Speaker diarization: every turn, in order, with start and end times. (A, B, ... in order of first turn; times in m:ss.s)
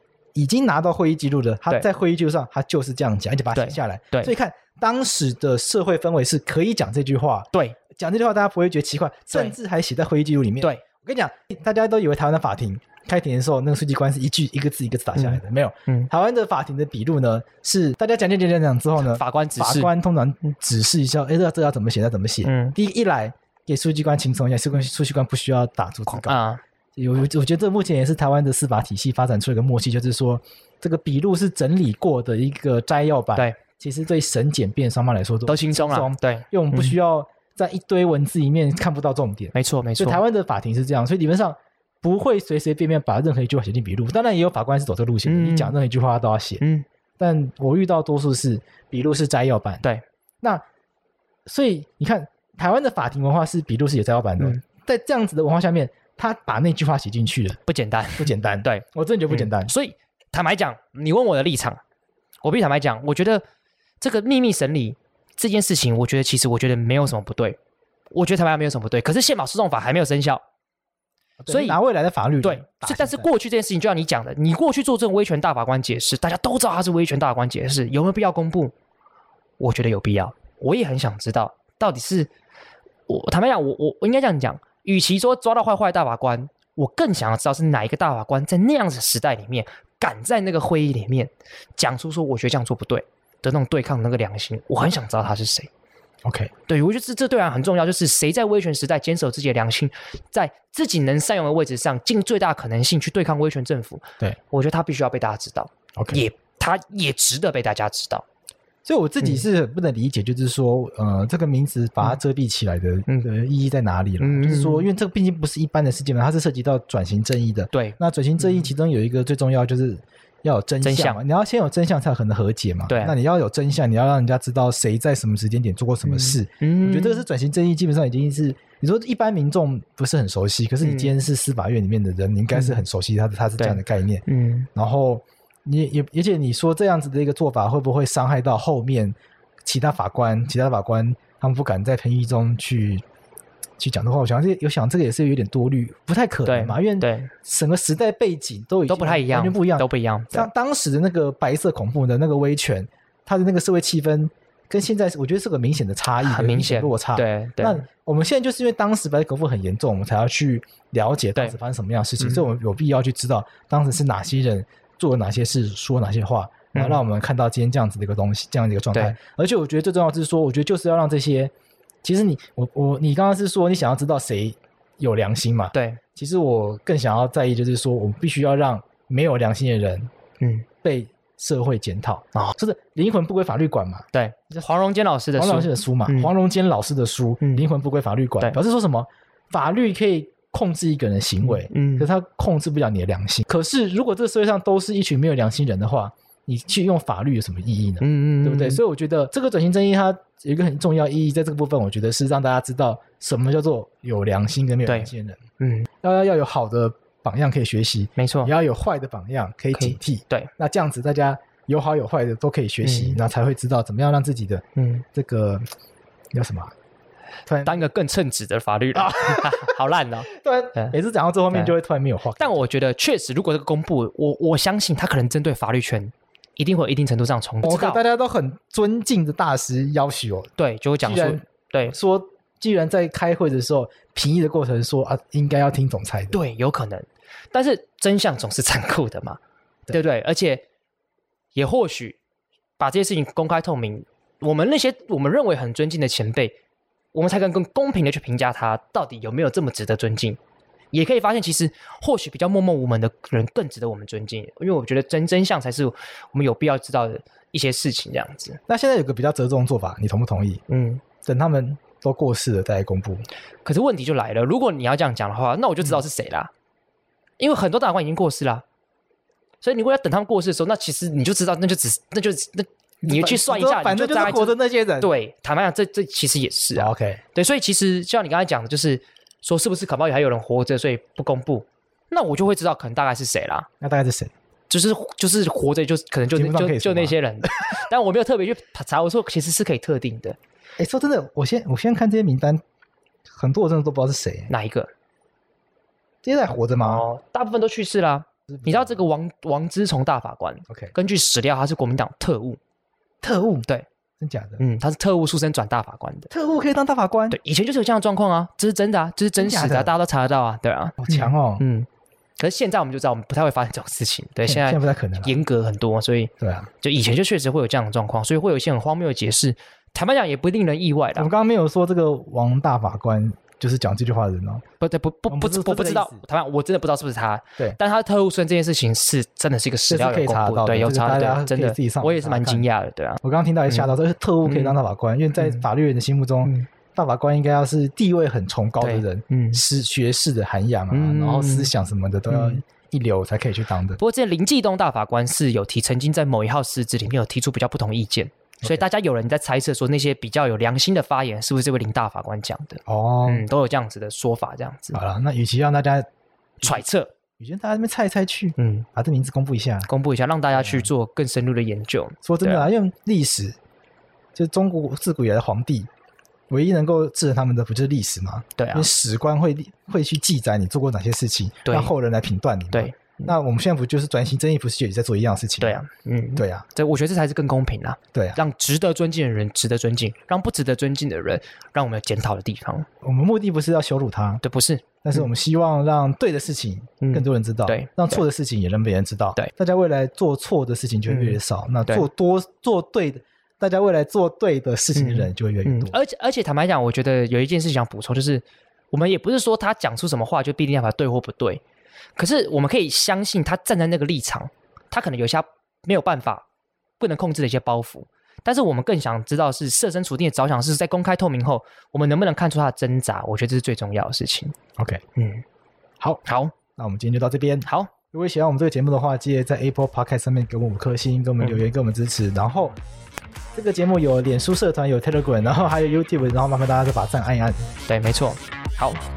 0:00.3-0:26.4 A
0:03.6-0:04.3 B
0:07.5-0:07.8 B
0:15.2-0:16.1 B
0:19.0-0:19.9 B
0:22.4-0:22.7 B
0:26.1-0:26.6 B
0:27.0-0:46.6 A
0:35.5-0:37.0 B
0:39.5-0:40.2 B
0:45.2-0:45.7 B
0:46.6-0:46.9 B
0:47.2-0:49.8 A
0:51.4-0:57.6 A
0:57.6-1:01.8 B
0:58.2-0:59.7 A
1:02.4-1:03.4 B
1:04.0-1:07.6 B
1:08.1-1:10.4 B
1:11.4-1:13.3 A
1:11.5-1:11.8 B
1:12.4-1:18.7 B
1:19.6-1:22.3 B
1:23.1-1:35.7 B
1:36.2-1:36.5 A
1:36.7-1:48.2 B
1:46.0-1:46.2 A
1:48.8-2:23.0 A
1:54.2-1:54.9 B
1:57.7-1:58.7 B
2:00.8-2:01.2 B
2:02.9-2:03.2 B
2:06.0-2:07.2 B
2:10.8-2:11.1 B
2:12.5-2:12.8 B
2:13.6-2:14.7 B
2:23.8-2:51.5 A
2:26.4-2:27.3 B
2:28.9-2:30.5 B
2:36.2-2:37.8 B
2:46.7-2:47.0 B
2:52.0-3:00.1 A
2:55.7-2:56.0 B
3:00.4-3:00.6 B
3:00.8-3:04.6 A
3:04.1-3:06.3 B
3:05.4-3:25.4 A
3:11.4-3:12.1 B
3:18.0-3:18.8 B
3:24.9-3:25.9 B
3:26.0-3:35.6 A
3:28.2-3:28.5 B
3:29.7-3:30.5 B
3:32.8-3:33.2 B
3:34.8-3:35.0 B
3:36.3-3:36.7 A
3:37.4-3:37.9 A
3:37.6-3:40.9 B
3:38.9-3:42.6 A
3:42.4-3:48.0 B
3:47.6-3:56.4 A
3:50.6-3:52.0 B
3:56.3-4:00.6 B
4:01.6-4:02.2 B
4:02.8-4:06.6 B
4:07.1-4:10.4 B
4:10.9-4:18.6 B
4:18.7-4:20.6 A
4:20.7-4:21.0 B
4:21.2-4:23.2 A
4:23.6-4:26.5 B
4:27.4-4:28.6 B
4:29.6-4:43.7 B
4:33.0-4:35.1 A
4:36.7-4:37.2 A
4:43.8-4:44.3 A
4:44.7-4:50.4 B
4:46.3-4:47.8 A
4:50.8-4:52.6 A
4:53.3-4:54.5 A
4:54.5-4:54.9 B
4:56.2-4:57.0 A
4:56.8-5:02.6 B
4:58.5-4:59.0 A
5:03.2-5:03.7 A
5:04.2-5:04.6 A
5:04.6-5:06.3 B
5:06.3-5:07.4 A
5:07.3-5:11.9 B
5:09.4-5:09.9 A
5:11.0-5:11.6 A
5:12.4-5:21.3 B
5:14.4-5:15.4 A
5:16.4-5:16.7 A
5:21.2-5:24.6 A
5:24.8-5:33.9 B
5:25.3-5:26.2 A
5:29.9-5:32.7 A
5:33.2-5:44.0 A
5:34.4-5:34.8 B
5:38.8-5:39.6 B
5:40.9-5:41.7 B
5:42.3-5:42.6 B
5:44.0-5:55.0 B
5:52.9-5:53.4 A
5:54.9-5:56.1 A
5:56.6-5:57.1 B
5:57.4-5:59.9 A
5:58.6-5:58.9 B
5:59.9-6:02.7 B
6:00.5-6:00.9 A
6:02.2-6:03.6 A
6:04.3-6:05.9 A
6:06.5-6:15.8 A
6:08.6-6:08.9 B
6:11.6-6:11.9 B
6:12.7-6:13.3 B
6:15.6-6:22.9 B
6:16.4-6:16.6 A
6:18.1-6:18.4 A
6:23.0-6:24.4 A
6:24.4-6:25.3 B
6:25.0-6:36.0 A
6:27.0-6:28.2 B
6:31.1-6:32.0 B
6:34.9-6:41.6 B
6:42.2-6:46.4 B
6:47.0-6:54.6 B
6:54.8-6:55.0 A
6:55.2-6:55.4 B
6:56.2-6:56.5 B
6:56.8-7:02.8 A
6:57.6-6:57.9 B
7:03.6-7:07.7 A
7:07.9-7:09.0 B